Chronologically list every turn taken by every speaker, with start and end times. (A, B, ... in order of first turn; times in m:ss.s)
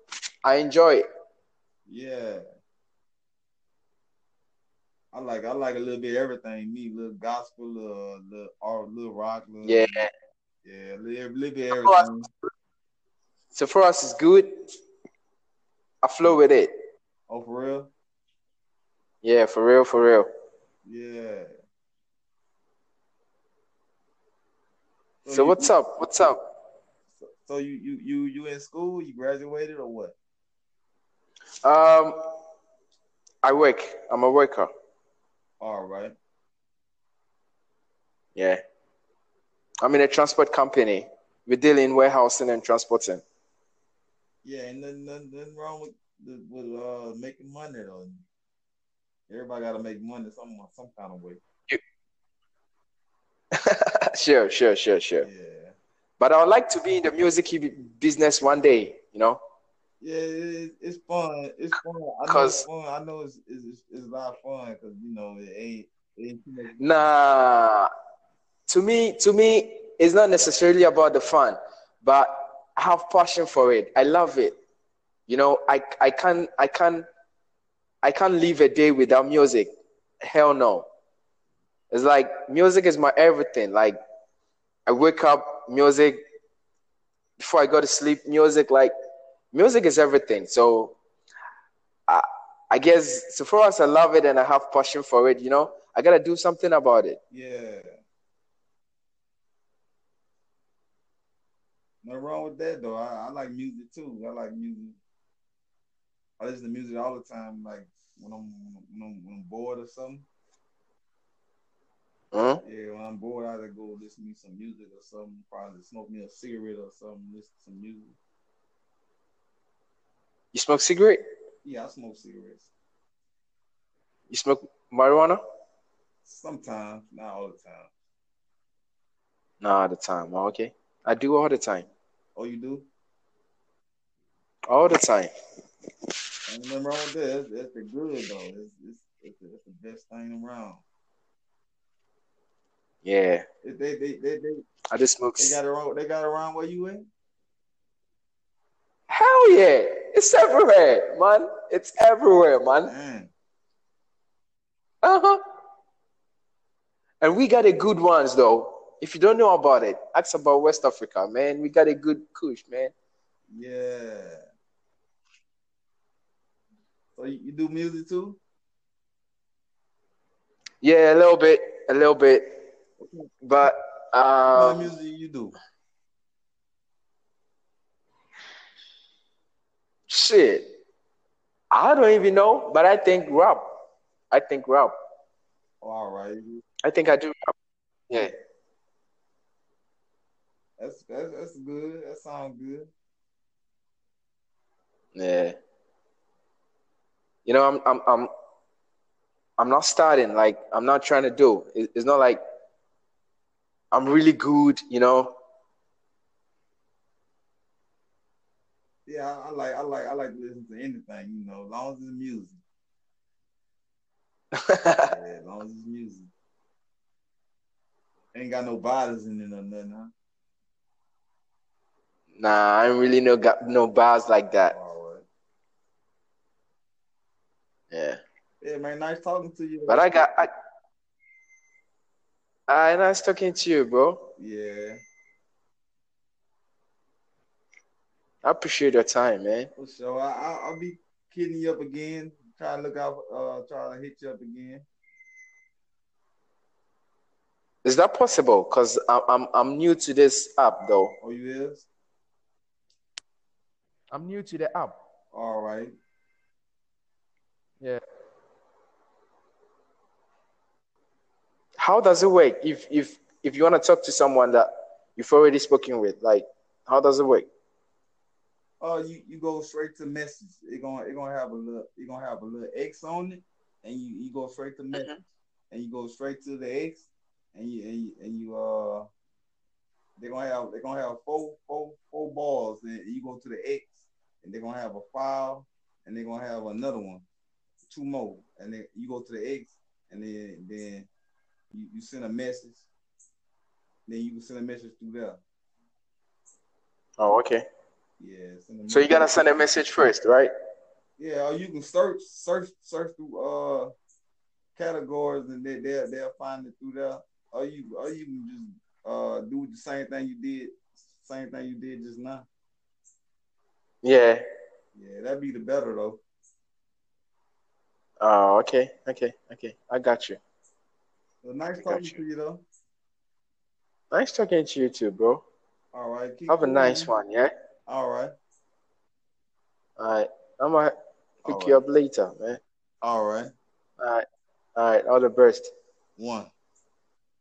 0:00.4-0:01.0 A
0:01.9-0:02.4 B
0:05.1-0:09.9 B
0:09.6-0:10.1 A
0:10.6-0:12.3 B
0:11.8-0:12.0 A
0:13.5-0:14.5 A
0:16.0-0:16.7 A
0:17.3-0:17.9 B
0:19.2-0:20.3 A
0:20.8-0:21.5 B
0:25.2-0:25.7 B
0:25.3-0:26.4 A
0:27.2-0:30.1 B
0:31.6-0:32.2 A
0:33.4-0:34.7 A
0:35.6-0:36.1 B
0:39.8-0:43.2 A
0:44.4-0:48.2 B
0:49.3-0:51.4 B
0:53.6-0:55.3 A
0:55.2-0:55.7 B
0:56.2-0:59.4 A
1:00.0-1:06.8 B
1:02.3-1:02.6 A
1:06.8-1:07.9 A
1:08.7-1:14.6 A
1:15.3-1:17.0 A
1:18.0-1:19.7 A
1:20.2-1:20.9 A
1:21.9-1:24.0 A
1:24.9-1:26.2 A
1:27.4-1:28.9 A
1:29.5-1:31.0 A
1:32.1-1:37.2 A
1:37.3-1:37.9 B
1:42.0-1:45.0 B
1:46.4-1:50.3 B
1:52.3-1:52.6 A
1:52.6-1:58.2 B
2:00.5-2:01.2 A
2:01.6-2:02.7 B
2:04.3-2:05.4 A
2:06.2-2:07.9 B
2:09.6-2:11.9 A
2:12.3-2:12.9 B
2:14.7-2:15.3 A
2:16.5-2:20.8 B
2:23.0-2:23.4 A
2:23.6-2:24.6 B
2:24.9-2:25.6 A
2:25.4-2:27.1 B
2:29.1-2:32.9 A
2:32.8-2:33.3 B
2:35.0-2:35.4 A
2:37.2-2:42.9 A
2:43.5-2:44.4 B
2:47.1-2:48.4 B
2:50.8-2:52.6 A
2:53.0-2:53.3 B
2:53.4-2:54.9 A
2:54.5-2:55.6 B
3:00.1-3:00.6 A
3:01.7-3:03.6 A
3:04.3-3:04.9 A
3:05.8-3:06.6 B
3:06.8-3:07.5 A
3:10.8-3:12.9 B
3:15.1-3:15.5 A
3:17.4-3:18.3 A
3:19.6-3:22.4 A
3:23.9-3:25.4 A
3:29.0-3:32.6 B
3:34.7-3:35.1 A
3:35.0-3:36.3 B
3:38.3-3:40.1 B
3:42.3-3:44.7 A
3:44.6-3:45.2 B
3:47.9-3:48.2 A
3:48.6-3:50.3 B
3:49.9-3:50.5 A
3:52.7-3:54.3 A
3:54.4-3:55.0 B
3:58.4-3:59.7 A
3:59.8-4:04.8 B
4:07.8-4:11.1 A
4:11.2-4:11.9 B
4:14.1-4:15.0 A
4:15.3-4:15.9 B
4:21.8-4:27.5 A
4:28.8-4:35.1 B
4:34.9-4:35.2 A
4:35.7-4:39.1 B
4:40.2-4:47.2 B
4:47.9-4:51.1 B
4:51.7-4:52.8 B
4:54.0-4:55.4 B
4:57.2-4:57.6 A
4:58.2-4:59.5 B
4:58.9-5:00.5 A
5:01.2-5:03.9 B
5:04.8-5:12.5 B
5:14.0-5:14.4 A
5:14.9-5:16.2 B
5:18.2-5:20.4 A
5:21.4-5:22.6 B
5:21.8-5:22.2 A
5:24.1-5:25.4 A
5:25.9-5:27.1 B
5:26.5-5:27.5 A
5:27.9-5:28.3 B
5:30.0-5:32.6 A
5:31.4-5:31.8 B
5:33.0-5:33.5 B
5:34.0-5:34.2 A
5:34.8-5:35.7 A
5:36.2-5:36.5 B